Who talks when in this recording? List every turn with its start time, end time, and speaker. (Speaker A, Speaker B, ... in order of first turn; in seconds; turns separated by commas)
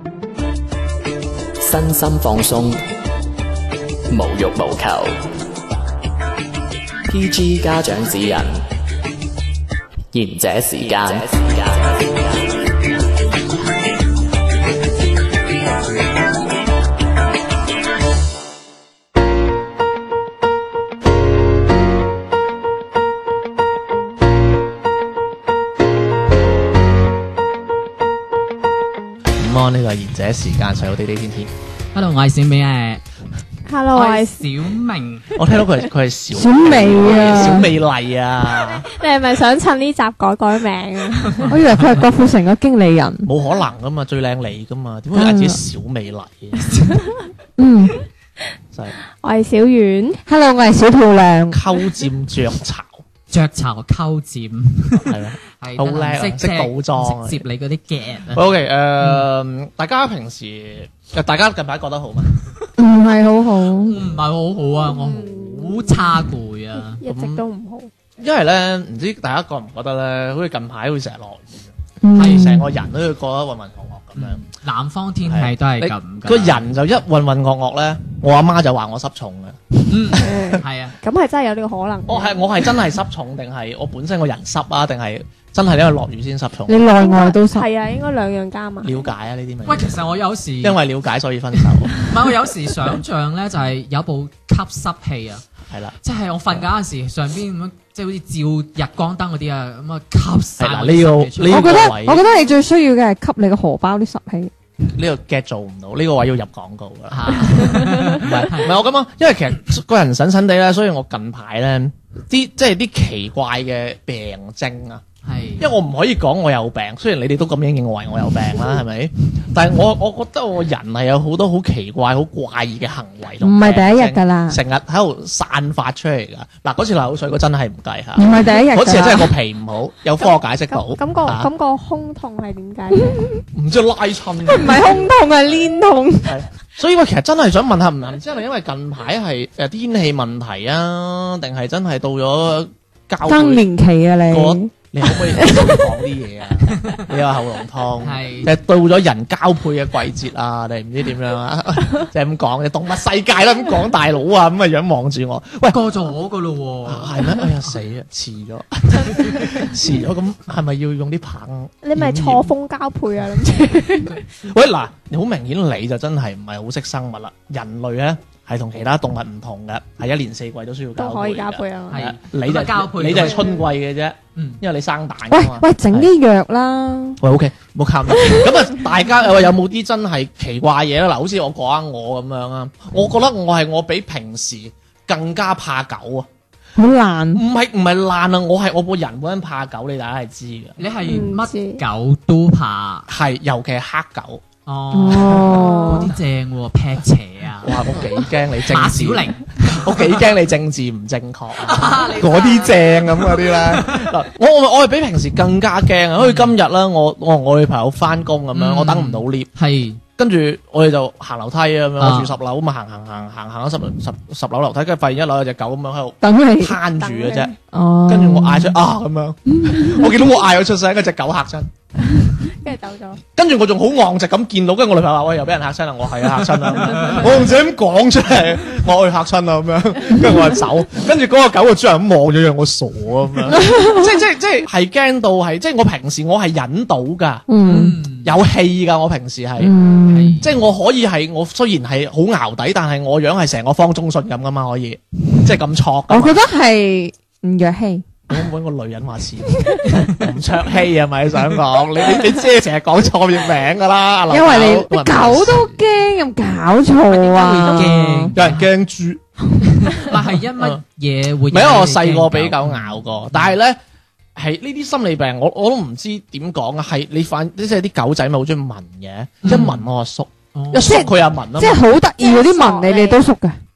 Speaker A: 1.6-2.8, Speaker A: 4.1-5.1, Speaker A: 7.1-8.6, Speaker A: 10.1-12.5, Speaker B: 29.4-31.5, Speaker C: 31.9-33.0, Speaker D: 33.7-34.5, Speaker C: 33.9-35.4, Speaker B: 35.4-38.9, Speaker E: 36.4-37.7, Speaker D: 38.5-41.5, Speaker C: 41.4-41.9, Speaker E: 41.5-43.3, Speaker B: 43.3-46.7, Speaker E: 45.1-45.6, Speaker D: 46.7-47.3, Speaker E: 47.6-48.0, Speaker D: 49.2-50.2, Speaker E: 50.3-51.6, Speaker B: 51.5-53.0, Speaker C: 53.3-58.5, Speaker B: 55.0-57.4, Speaker B: 58.3-62.3, Speaker C: 59.0-59.3, Speaker E: 62.8-64.0, Speaker C: 63.8-67.0, Speaker D: 64.8-66.2, Speaker D: 66.8-67.9, Speaker B: 67.0-67.4, Speaker B: 68.2-74.4, Speaker E: 72.0-72.7, Speaker C: 72.2-72.5, Speaker C: 74.2-76.7, Speaker B: 75.2-79.6, Speaker C: 79.9-81.0, Speaker B: 80.1-80.4, Speaker D: 80.1-82.7, Speaker B: 82.1-87.0, Speaker E: 86.7-87.7, Speaker D: 87.0-89.1, Speaker B: 88.8-89.9, Speaker C: 89.7-90.8, Speaker B: 90.6-92.2, Speaker C: 91.6-95.4, Speaker B: 95.7-96.0, Speaker C: 96.0-101.8, Speaker B: 100.6-102.2, Speaker E: 101.5-104.5, Speaker B: 105.0-115.0, Speaker C: 107.1-108.8, Speaker C: 115.2-115.7, Speaker B: 115.6-131.5, Speaker E: 123.4-124.6, Speaker E: 128.2-129.3, Speaker D: 130.7-133.2, Speaker E: 132.9-133.4, Speaker B: 133.5-135.0, Speaker E: 134.5-136.4, Speaker B: 136.2-143.7, Speaker E: 143.2-144.7, Speaker B: 144.3-155.8, Speaker E: 145.3-145.8, Speaker C: 148.0-148.5, Speaker C: 155.7-157.7, Speaker B: 156.9-162.5, Speaker D: 161.8-164.2, Speaker B: 164.4-176.1, Speaker D: 171.0-172.1, Speaker C: 171.9-173.5, Speaker D: 173.2-173.6, Speaker C: 174.4-174.6, Speaker E: 175.3-177.2, Speaker B: 177.2-186.3, Speaker E: 186.8-187.4, Speaker B: 187.3-190.8, Speaker C: 190.8-193.1, Speaker D: 191.0-191.8, Speaker B: 193.1-194.4, Speaker C: 194.7-200.3, Speaker E: 194.9-196.1, Speaker D: 195.4-196.1, Speaker B: 197.6-209.5, Speaker C: 201.6-204.1, Speaker C: 206.2-206.5, Speaker C: 208.5-210.0, Speaker B: 210.2-217.5, Speaker C: 212.0-212.3, Speaker E: 216.2-216.8, Speaker D: 216.9-217.6, Speaker E: 217.7-218.8, Speaker B: 218.1-221.7, Speaker E: 219.6-220.0, Speaker D: 222.2-223.2, Speaker B: 223.4-239.7, Speaker E: 237.5-238.0, Speaker C: 237.6-238.4, Speaker E: 239.6-240.4, Speaker C: 240.1-240.5, Speaker B: 240.4-246.4, Speaker E: 246.1-248.2, Speaker B: 248.3-255.8, Speaker E: 254.3-258.4, Speaker C: 257.1-258.7, Speaker B: 258.4-259.2, Speaker C: 259.7-263.5, Speaker B: 260.6-260.8, Speaker B: 261.5-263.8, Speaker B: 264.4-271.8, Speaker C: 269.4-269.9, Speaker C: 270.5-271.3, Speaker E: 270.8-273.6, Speaker D: 272.2-273.2